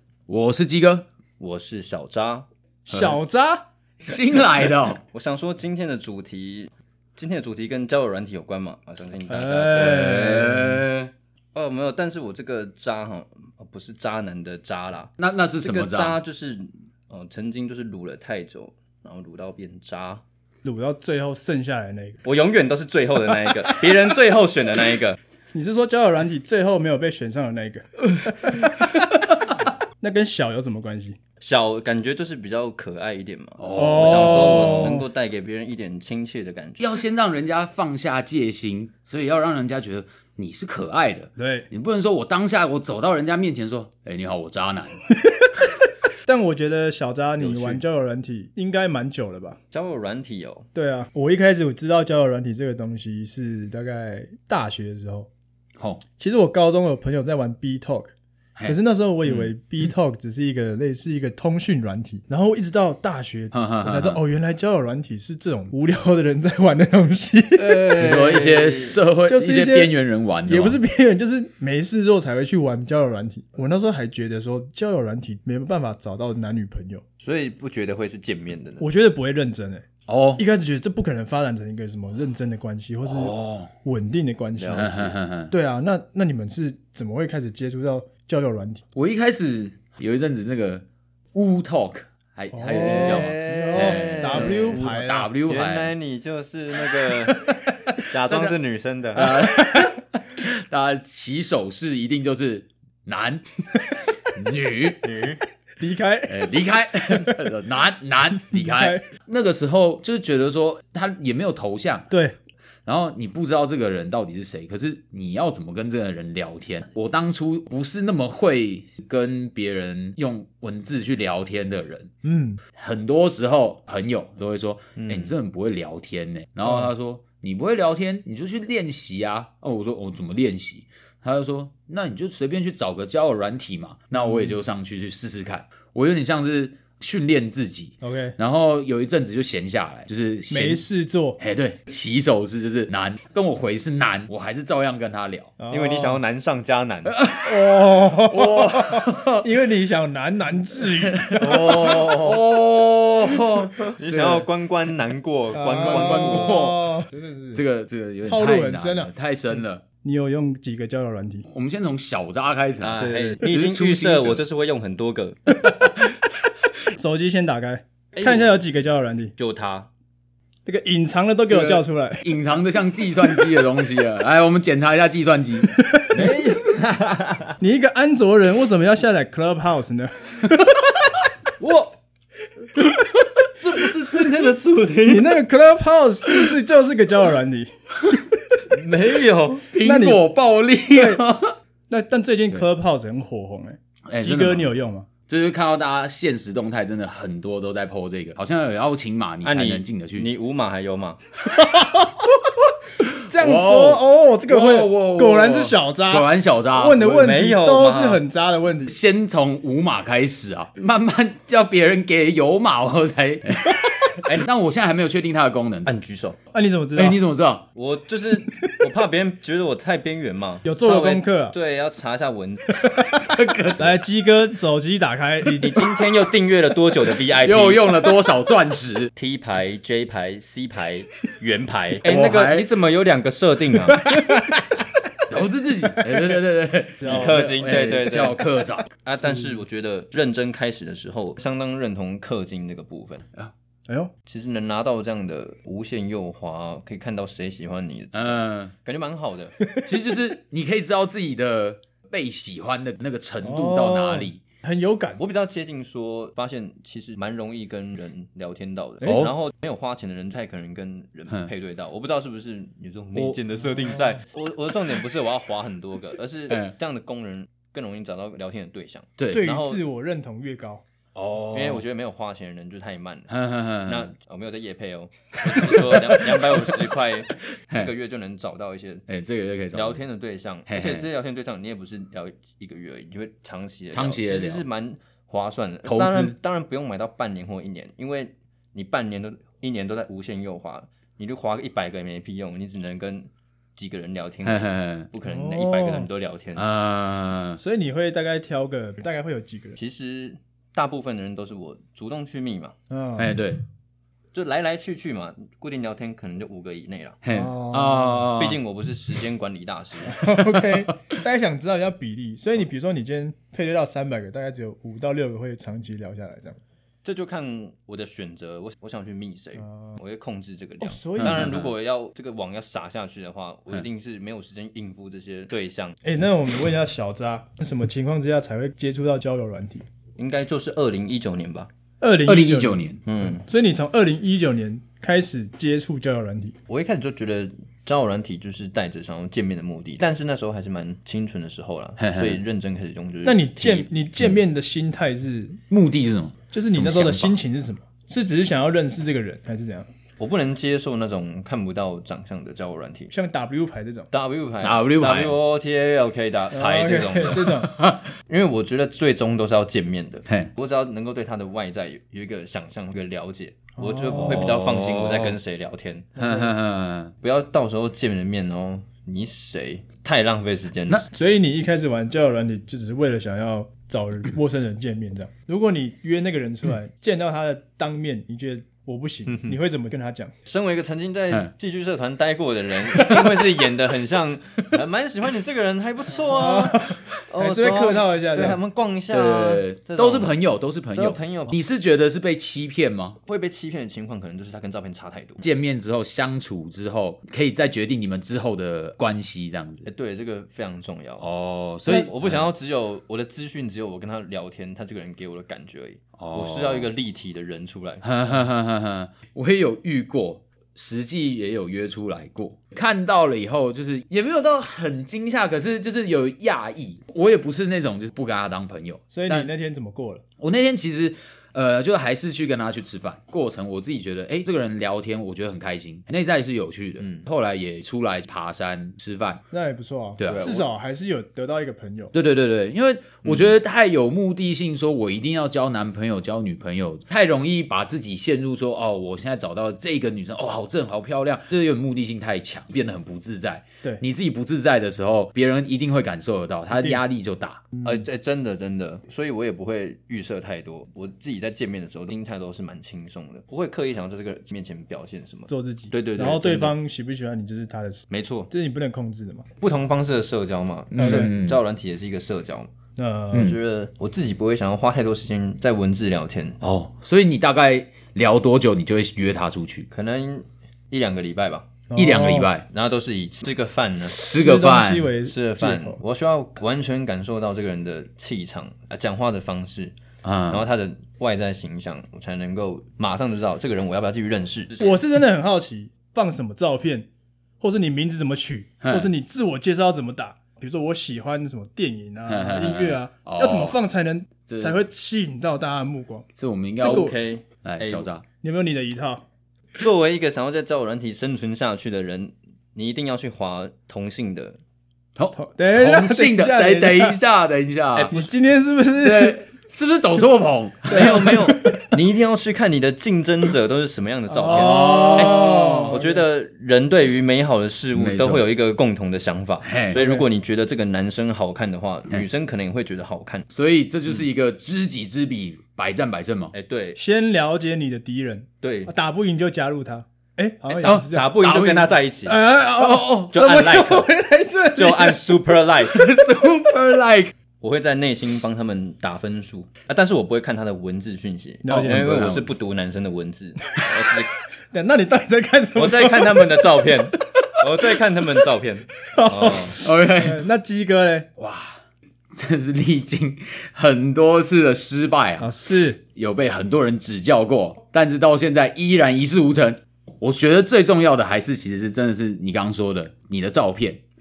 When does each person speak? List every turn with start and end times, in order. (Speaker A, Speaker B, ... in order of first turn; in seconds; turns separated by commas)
Speaker A: 0.3-1.1, Speaker B: 1.4-2.5, Speaker C: 2.9-3.6, Speaker A: 2.9-3.2, Speaker A: 4.0-5.0, Speaker B: 5.1-10.5, Speaker C: 9.3-10.8, Speaker A: 9.8-11.1, Speaker B: 11.6-20.2, Speaker A: 15.2-16.2, Speaker C: 20.6-22.2, Speaker B: 22.2-25.2, Speaker C: 25.5-28.8, Speaker C: 30.0-31.2, Speaker B: 31.4-36.8, Speaker A: 33.6-35.0, Speaker C: 33.8-35.0, Speaker A: 36.8-45.0, Speaker C: 41.4-41.7, Speaker C: 46.2-49.6, Speaker B: 47.4-47.8, Speaker B: 49.7-50.7, Speaker C: 50.8-55.3, Speaker A: 55.8-56.0, Speaker C: 56.2-58.1, Speaker A: 58.6-59.5, Speaker C: 58.7-68.3, Speaker A: 63.5-64.2, Speaker B: 67.6-69.0, Speaker A: 67.7-70.8, Speaker C: 69.3-69.9, Speaker C: 70.5-77.0, Speaker B: 77.2-78.9, Speaker C: 78.8-79.9, Speaker A: 80.1-80.4, Speaker C: 80.4-84.9, Speaker A: 83.1-83.7, Speaker B: 84.6-85.1, Speaker A: 84.7-85.5, Speaker C: 85.5-88.8, Speaker A: 89.0-95.9, Speaker C: 92.5-95.3, Speaker B: 92.7-94.8, Speaker B: 95.5-97.5, Speaker B: 98.0-99.3, Speaker C: 99.2-100.0, Speaker A: 99.2-103.5, Speaker A: 104.3-105.2, Speaker B: 105.0-105.4, Speaker C: 105.8-106.5, Speaker A: 106.3-112.1, Speaker C: 107.1-107.5, Speaker C: 108.4-109.0, Speaker C: 112.1-112.4, Speaker A: 112.9-122.1, Speaker C: 122.2-122.6, Speaker A: 122.8-140.8, Speaker B: 125.0-125.3, Speaker C: 138.0-138.4, Speaker C: 140.5-141.4, Speaker A: 141.4-145.5, Speaker C: 145.6-146.2, Speaker B: 145.7-147.2, Speaker A: 147.1-149.5, Speaker C: 147.4-151.9, Speaker A: 150.8-154.4, Speaker B: 151.4-152.4, Speaker B: 154.0-156.6, Speaker C: 155.5-157.6, Speaker A: 155.8-156.8, Speaker A: 157.5-159.8, Speaker C: 158.3-159.1, Speaker C: 160.0-161.5, Speaker A: 161.5-164.4, Speaker B: 162.8-165.4, Speaker C: 163.0-163.4, Speaker A: 165.6-166.0, Speaker C: 166.9-169.3, Speaker B: 168.2-168.5, Speaker B: 169.4-169.9, Speaker C: 170.7-172.3, Speaker A: 171.5-175.7, Speaker C: 175.7-176.3, Speaker B: 176.1-177.6, Speaker C: 177.6-181.1, Speaker B: 181.6-181.9, Speaker B: 183.6-185.4, Speaker C: 185.1-187.7, Speaker B: 188.8-189.7, Speaker A: 189.6-191.6, Speaker C: 189.8-190.2, Speaker C: 190.9-191.2, Speaker C: 191.9-195.1, Speaker A: 194.1-194.7, Speaker A: 195.3-200.3, Speaker B: 199.4-201.2, Speaker C: 201.5-202.3, Speaker A: 203.0-207.1, Speaker C: 203.2-209.0, Speaker B: 207.0-208.2, Speaker A: 208.8-215.9, Speaker B: 215.8-216.4, Speaker C: 216.5-217.2, Speaker A: 216.9-217.7, Speaker B: 217.8-222.7, Speaker C: 220.7-221.6, Speaker C: 222.7-226.1, Speaker A: 223.2-224.0, Speaker B: 225.5-227.9, Speaker A: 227.4-229.1, Speaker B: 229.2-234.1, Speaker A: 232.1-232.7, Speaker A: 233.9-238.9, Speaker C: 234.1-234.5, Speaker C: 236.0-236.4, Speaker C: 237.0-237.5, Speaker B: 237.1-238.4, Speaker B: 239.0-243.2, Speaker C: 243.9-244.1, Speaker B: 244.3-249.6, Speaker A: 248.1-248.7, Speaker A: 249.8-254.4, Speaker C: 253.4-255.2, Speaker B: 255.2-269.8, Speaker C: 259.0-259.3, Speaker A: 259.0-259.3, Speaker A: 269.2-269.5, Speaker C: 269.3-270.8, Speaker A: 271.1-271.8, Speaker B: 271.5-273.3, Speaker A: 273.3-274.1, Speaker B: 273.9-279.1, Speaker A: 275.5-276.7, Speaker A: 279.1-280.0, Speaker B: 279.7-296.6, Speaker A: 280.7-281.1, Speaker A: 283.9-284.6, Speaker A: 285.9-286.4, Speaker A: 294.4-295.1, Speaker C: 295.2-296.1, Speaker A: 296.6-297.6, Speaker C: 297.6-299.8, Speaker B: 299.8-302.7, Speaker C: 302.9-303.4, Speaker A: 303.2-303.6, Speaker B: 304.3-307.2, Speaker A: 307.2-308.6, Speaker C: 307.3-308.3, Speaker B: 308.4-310.2, Speaker C: 310.1-316.6, Speaker A: 310.4-310.9, Speaker B: 317.0-326.0, Speaker C: 319.6-320.0, Speaker C: 320.8-321.5, Speaker A: 321.2-321.7, Speaker C: 326.0-329.9, Speaker B: 330.2-331.7, Speaker C: 332.0-336.6, Speaker A: 332.3-333.0, Speaker B: 333.1-333.4, Speaker B: 336.7-343.9, Speaker A: 342.0-342.4, Speaker C: 343.2-345.6, Speaker A: 345.7-347.4, Speaker C: 346.5-349.9, Speaker B: 350.2-353.1, Speaker C: 353.1-354.1, Speaker B: 354.1-357.6, Speaker A: 354.6-355.4, Speaker C: 356.5-357.7, Speaker A: 357.7-358.1, Speaker B: 358.3-366.1, Speaker C: 363.8-364.5, Speaker A: 364.2-365.4, Speaker C: 366.2-366.5, Speaker A: 366.2-367.1, Speaker B: 367.2-371.1, Speaker C: 371.1-380.3, Speaker B: 379.3-379.6, Speaker B: 380.5-390.3, Speaker C: 386.3-388.6, Speaker A: 389.1-393.2, Speaker B: 390.9-391.6, Speaker B: 393.3-395.4, Speaker A: 395.4-399.9, Speaker B: 399.9-401.3, Speaker A: 401.2-402.5, Speaker B: 401.9-408.1, Speaker A: 406.2-406.9, Speaker A: 408.0-419.5, Speaker C: 419.1-420.2, Speaker A: 420.4-429.4, Speaker B: 427.0-427.3, Speaker C: 429.5-432.1, Speaker A: 430.2-430.5, Speaker B: 430.2-430.7, Speaker A: 432.1-447.6, Speaker C: 446.7-447.0, Speaker C: 447.7-448.0, Speaker B: 447.8-456.8, Speaker C: 455.5-459.5, Speaker B: 458.1-458.5, Speaker B: 459.6-462.7, Speaker A: 460.9-461.6, Speaker C: 461.0-461.3, Speaker C: 463.0-463.6, Speaker A: 463.3-463.6, Speaker B: 463.3-466.6, Speaker A: 466.6-469.9, Speaker B: 469.9-471.7, Speaker C: 471.9-472.5, Speaker A: 472.0-472.6, Speaker B: 472.7-474.2, Speaker A: 474.0-475.1, Speaker C: 474.3-476.0, Speaker B: 475.3-479.9, Speaker A: 480.2-480.6, Speaker B: 480.5-485.0, Speaker C: 484.8-487.1, Speaker C: 487.6-496.3, Speaker A: 488.8-489.1, Speaker A: 492.3-493.8, Speaker A: 494.5-494.8, Speaker A: 496.4-497.1, Speaker C: 496.8-497.2, Speaker B: 496.8-498.1, Speaker A: 497.6-498.2, Speaker C: 498.4-499.2, Speaker B: 499.8-504.6, Speaker A: 505.2-508.1, Speaker C: 505.4-507.2, Speaker B: 508.0-508.3, Speaker C: 508.1-509.4, Speaker A: 509.0-511.6, Speaker B: 510.9-523.5, Speaker C: 511.0-511.9, Speaker C: 514.3-516.2, Speaker A: 514.6-516.0, Speaker A: 517.9-518.5, Speaker A: 519.6-520.0, Speaker C: 519.9-520.2, Speaker A: 523.5-526.5, Speaker B: 526.5-527.0, Speaker C: 527.0-531.4, Speaker B: 528.6-528.9, Speaker B: 530.8-532.4, Speaker A: 530.8-532.0, Speaker C: 532.3-535.6, Speaker A: 532.8-533.3, Speaker B: 533.3-534.1, Speaker B: 534.7-536.0, Speaker A: 535.9-537.3, Speaker B: 537.6-544.3, Speaker C: 541.6-542.3, Speaker A: 541.7-542.5, Speaker C: 543.8-544.2, Speaker C: 544.7-546.9, Speaker B: 545.8-549.8, Speaker C: 549.1-551.3, Speaker A: 549.8-550.5, Speaker A: 551.4-551.8, Speaker A: 552.3-555.5, Speaker C: 555.4-556.0, Speaker A: 556.1-564.0